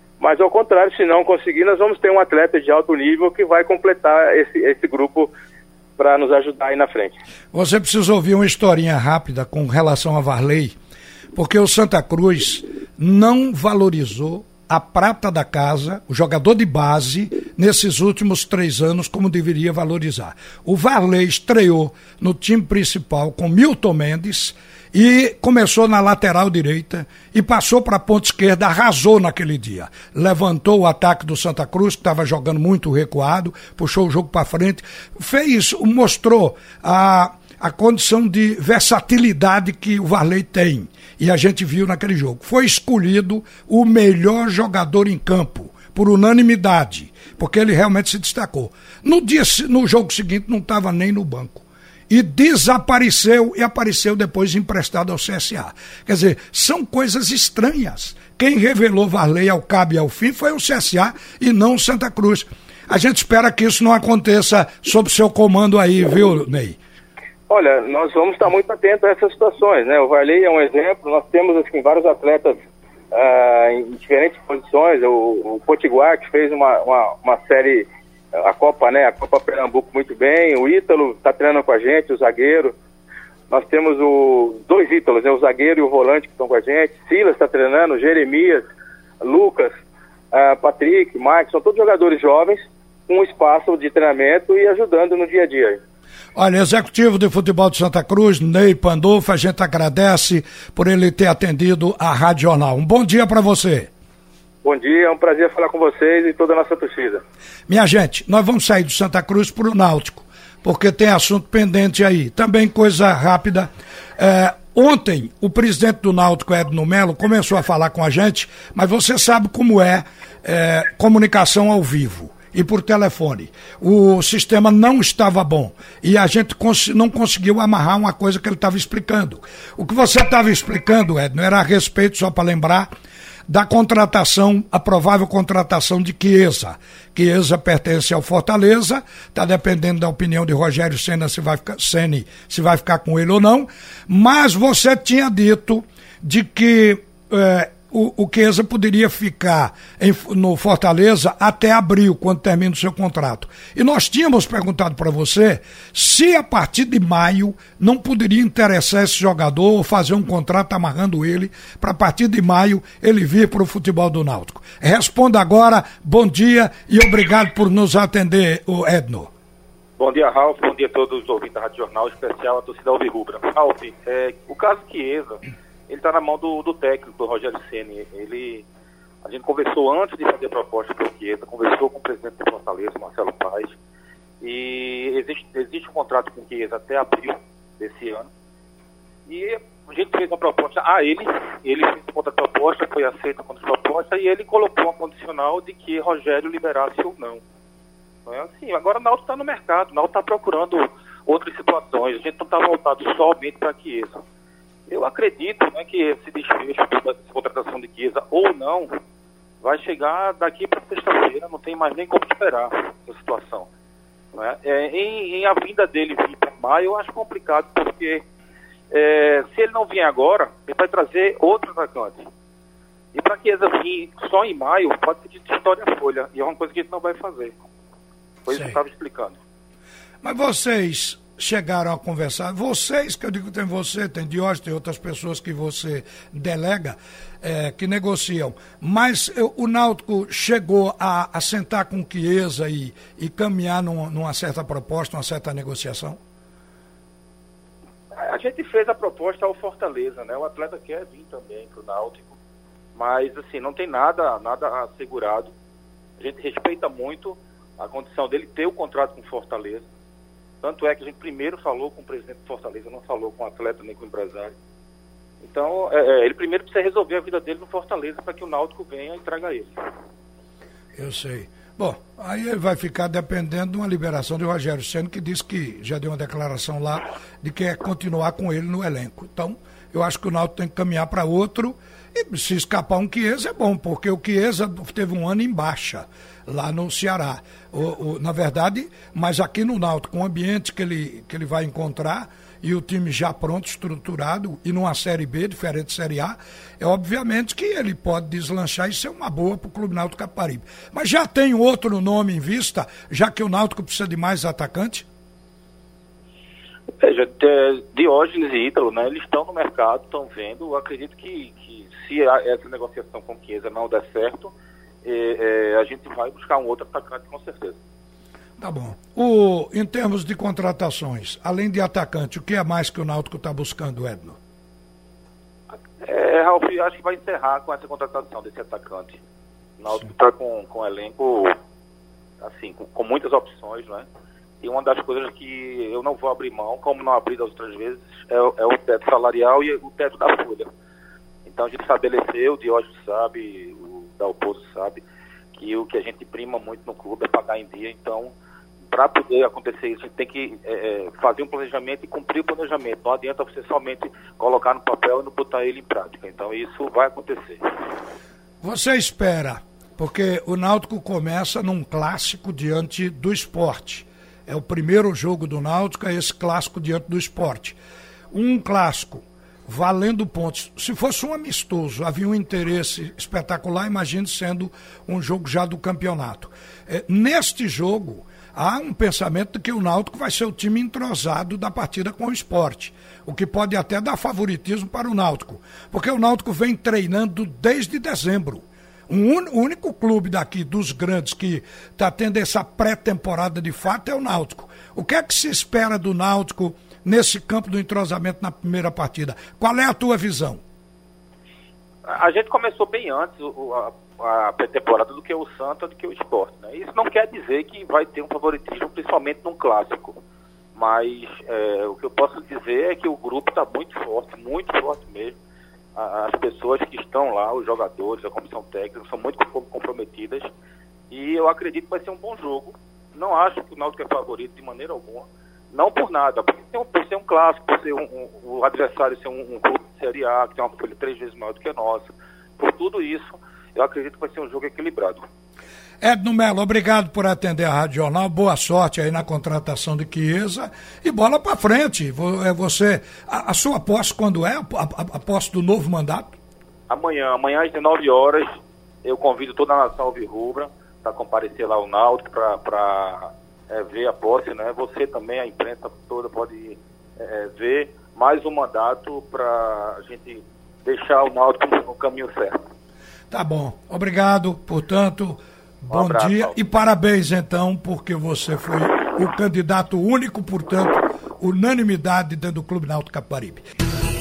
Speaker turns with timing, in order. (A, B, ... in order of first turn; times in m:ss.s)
0:00.2-0:05.3 A
0:06.0-0:07.1 A
0:07.5-0:10.7 B
0:11.3-1:06.8 B
1:07.5-1:12.6 A
1:13.1-1:22.7 A
1:23.5-1:28.6 A
1:29.2-1:29.7 A
1:30.3-1:35.8 A
1:36.3-1:43.9 B
1:44.6-1:47.2 A
1:47.7-2:12.9 B
2:13.5-2:49.3 B
2:50.0-2:58.6 C
2:59.2-3:03.7 C
3:04.4-3:08.3 C
3:09.3-3:17.4 C
3:18.2-3:24.2 C
3:24.9-3:28.9 C
3:29.6-3:33.7 C
3:34.3-3:38.2 C
3:38.9-3:42.3 C
3:43.1-3:47.5 C
3:48.4-3:49.4 C
3:48.5-3:48.8 B
3:50.2-4:06.2 B
4:08.2-4:12.4 C
4:12.9-4:15.5 C
4:16.2-4:19.8 C
4:20.6-4:24.5 C
4:25.4-4:29.7 C
4:30.9-5:05.0 B
5:07.0-5:14.5 C
5:15.0-5:17.8 C
5:18.6-5:24.4 B
5:26.0-5:29.2 C
5:29.8-5:31.5 C
5:32.4-5:34.0 C
5:34.6-5:40.7 C
5:41.4-5:45.0 C
5:45.5-5:48.3 C
5:48.9-5:57.6 C
5:58.6-6:07.8 B
6:08.3-6:40.6 B
6:42.0-6:50.2 C
6:50.7-6:55.4 C
6:56.0-7:00.5 C
7:01.1-7:12.1 C
7:12.6-7:15.2 C
7:16.0-7:26.4 B
7:26.9-7:28.5 C
7:29.0-7:42.5 C
7:43.3-7:53.6 B
7:45.9-7:46.6 C